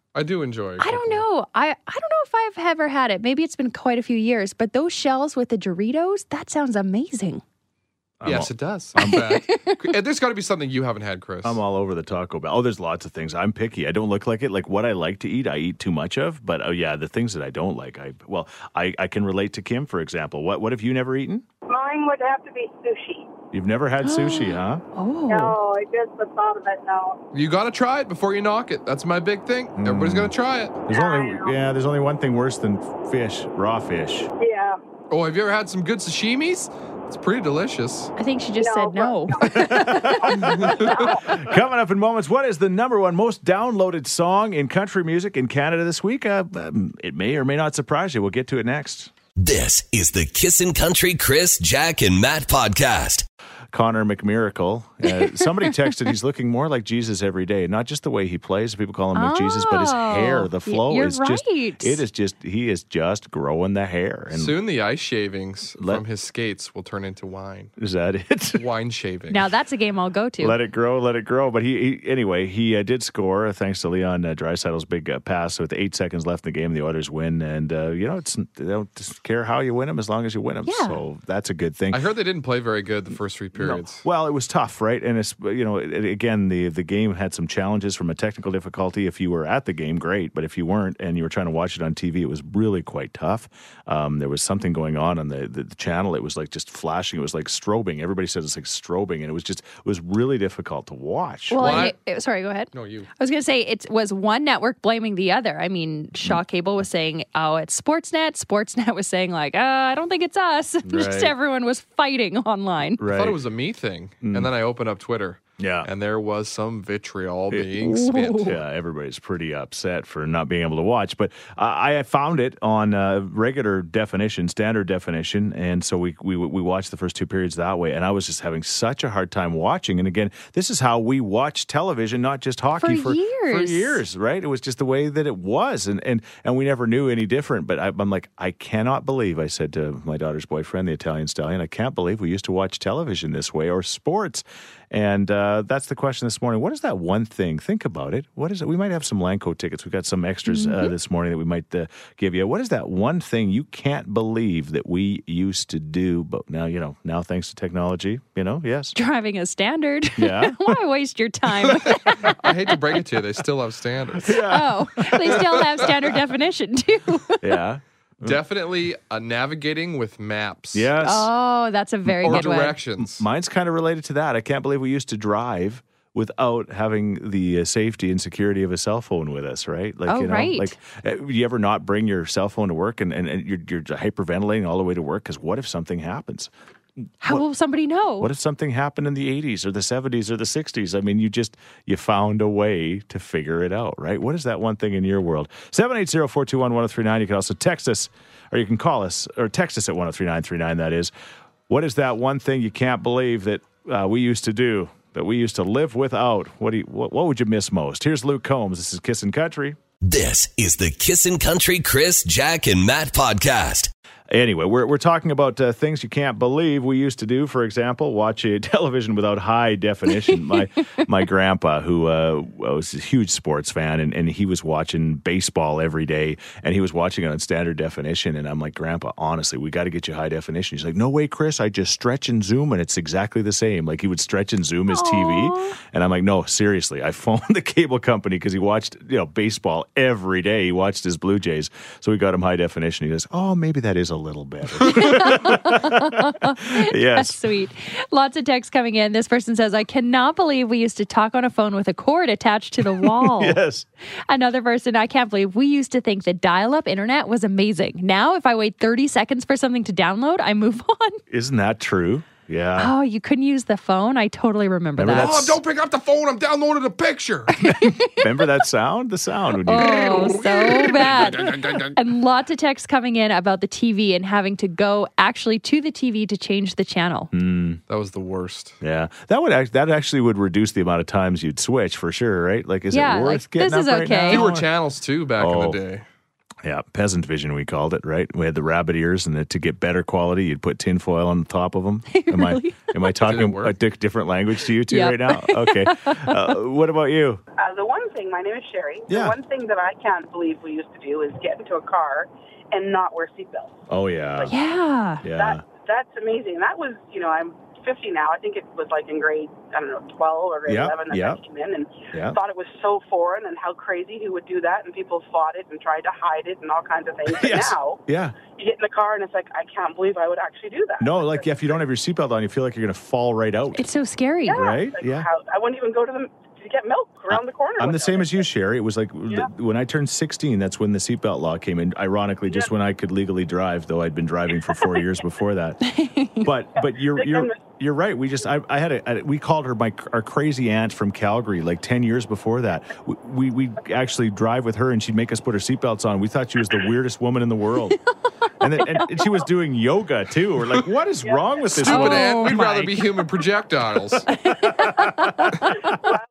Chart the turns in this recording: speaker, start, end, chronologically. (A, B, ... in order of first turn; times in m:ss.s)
0:00.1-0:01.2 A
0:00.8-0:07.4 B
0:08.2-0:09.3 C
0:08.2-0:11.6 A
0:09.0-0:09.8 B
0:11.4-0:21.4 C
0:21.7-0:23.2 D
0:23.5-0:24.8 C
0:24.0-0:25.5 B
0:25.3-0:27.1 D
0:27.3-0:30.8 A
0:29.8-0:30.3 C
0:30.8-0:34.3 C
0:30.9-0:31.5 D
0:34.4-0:34.7 D
0:35.1-0:38.1 A
0:38.2-0:40.5 B
0:38.6-0:39.6 D
0:39.4-0:49.1 C
0:40.3-0:41.0 A
0:40.9-0:41.2 D
0:49.4-0:53.2 E
0:53.7-1:04.6 C
0:55.0-0:55.7 B
0:59.1-1:02.0 B
1:04.3-1:07.7 A
1:05.8-1:06.0 C
1:07.8-1:08.6 C
1:08.5-1:09.5 A
1:09.3-1:10.6 B
1:10.4-1:22.1 C
1:20.6-1:21.0 B
1:21.9-1:24.0 A
1:23.5-1:41.9 C
1:41.5-1:53.0 B
1:41.6-1:41.9 A
1:42.7-1:43.1 A
1:50.8-1:51.3 C
1:53.0-1:53.4 C
1:53.1-1:58.5 A
1:54.2-1:54.5 C
1:55.6-1:55.9 C
1:57.5-2:38.9 C
1:57.9-1:58.5 B
2:12.7-2:14.0 B
2:30.4-2:30.9 B
2:38.9-2:42.8 B
2:40.2-2:40.8 C
2:41.8-2:44.4 A
2:44.2-2:45.9 C
2:44.4-2:47.4 B
2:45.3-2:45.9 A
2:47.4-2:48.4 C
2:48.2-2:50.9 A
2:50.7-2:51.3 C
2:51.0-2:52.8 B
2:52.0-3:06.5 C
2:52.2-2:53.2 A
3:00.1-3:00.7 B
3:07.2-3:08.3 B
3:08.2-3:21.1 C
3:21.7-3:29.8 C
3:30.0-3:33.9 E
3:34.3-4:07.4 C
3:54.9-3:55.8 B
4:04.8-4:13.6 B
4:12.8-4:13.8 C
4:14.3-4:21.2 B
4:21.3-4:22.9 C
4:22.8-4:25.4 B
4:25.0-4:25.6 C
4:25.1-4:27.6 A
4:27.6-4:28.3 B
4:27.7-4:30.4 C
4:29.6-4:37.3 B
4:29.7-4:32.0 A
4:37.3-4:37.8 C
4:37.9-4:38.8 A
4:38.8-4:44.7 C
4:42.9-4:44.4 B
4:44.3-4:46.0 A
4:45.4-4:45.8 C
4:46.6-4:57.4 C
4:52.1-4:53.1 B
4:53.2-4:53.7 A
4:54.9-4:56.5 B
4:57.6-5:03.8 F
4:59.1-4:59.4 C
5:03.9-5:04.5 C
5:04.5-5:05.2 B
5:05.2-5:05.6 C
5:05.3-5:18.0 F
5:10.6-5:11.4 C
5:12.1-5:12.4 C
5:17.3-5:18.3 C
5:18.6-5:21.8 F
5:21.0-5:23.9 C
5:23.7-5:24.6 B
5:24.4-5:28.4 F
5:24.5-5:25.3 C
5:27.3-5:35.8 C
5:35.8-5:36.5 B
5:36.4-5:48.0 C
5:36.8-5:37.6 F
5:48.6-5:53.0 C
5:51.2-5:51.5 F
5:51.8-5:54.3 A
5:51.8-5:52.6 B
5:54.3-5:55.9 B